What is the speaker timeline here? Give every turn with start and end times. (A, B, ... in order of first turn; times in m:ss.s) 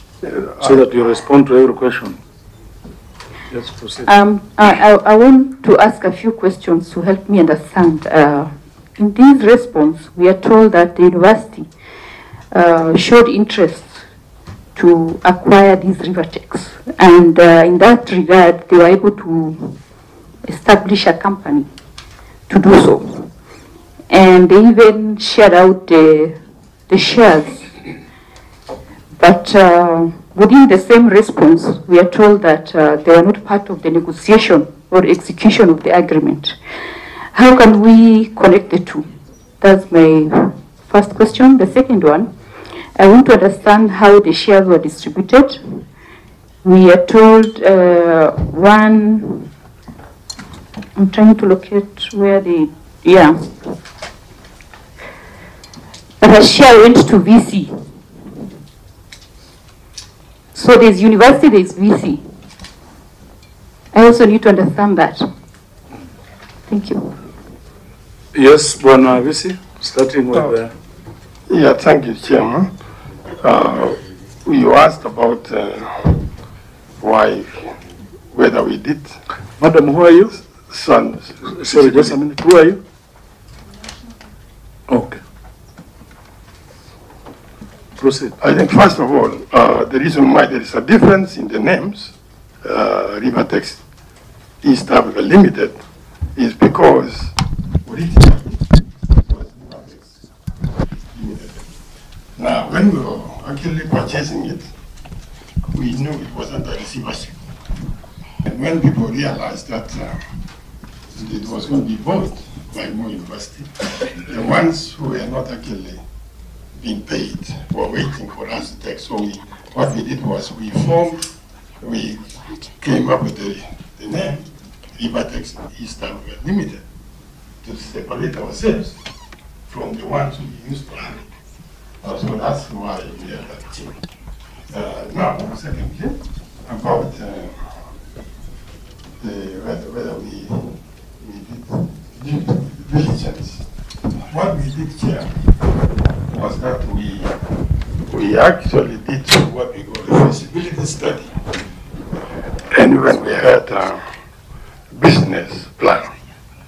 0:00.2-0:01.0 A
0:00.6-0:02.2 B
0:03.5-0:04.1 B
0:04.0-0:11.7 C
0:12.5-0:14.0 C
0:14.8-0:19.8 C
0:20.5-0:21.7 C
0:22.5-0:23.3 C
0:24.1-0:26.4 C
0:26.9-0:27.8 C
0:29.2-0:36.6 C
0:37.3-0:39.1 C
0:39.6-0:42.3 C
0:43.0-0:45.8 C
0:46.6-0:49.5 C
0:51.0-0:53.6 C
0:56.2-0:57.9 C
1:00.5-1:02.3 C
1:03.9-1:05.3 C
1:06.7-1:07.2 C
1:08.3-1:10.7 B
1:11.5-1:12.7 A
1:13.3-1:16.3 A
1:17.0-1:17.8 A
1:18.3-1:19.2 A
1:19.6-1:20.4 B
1:20.6-1:22.2 A
1:21.4-1:22.8 B
1:24.9-1:25.2 B
1:28.0-1:28.4 B
1:28.4-1:33.8 A
1:34.6-1:35.8 A
1:36.4-1:40.1 A
1:40.8-1:41.6 A
1:42.4-1:44.7 A
1:45.7-1:47.6 A
1:48.4-1:50.2 A
1:51.2-1:56.0 A
1:56.8-2:01.3 A
2:01.8-2:06.8 A
2:07.6-2:09.0 A
2:09.7-2:11.2 A
2:12.0-2:14.0 A
2:14.7-2:17.7 A
2:19.2-2:23.6 A
2:24.2-2:25.4 A
2:26.3-2:27.4 A
2:28.1-2:31.4 A
2:32.7-2:34.0 A
2:34.9-2:36.1 A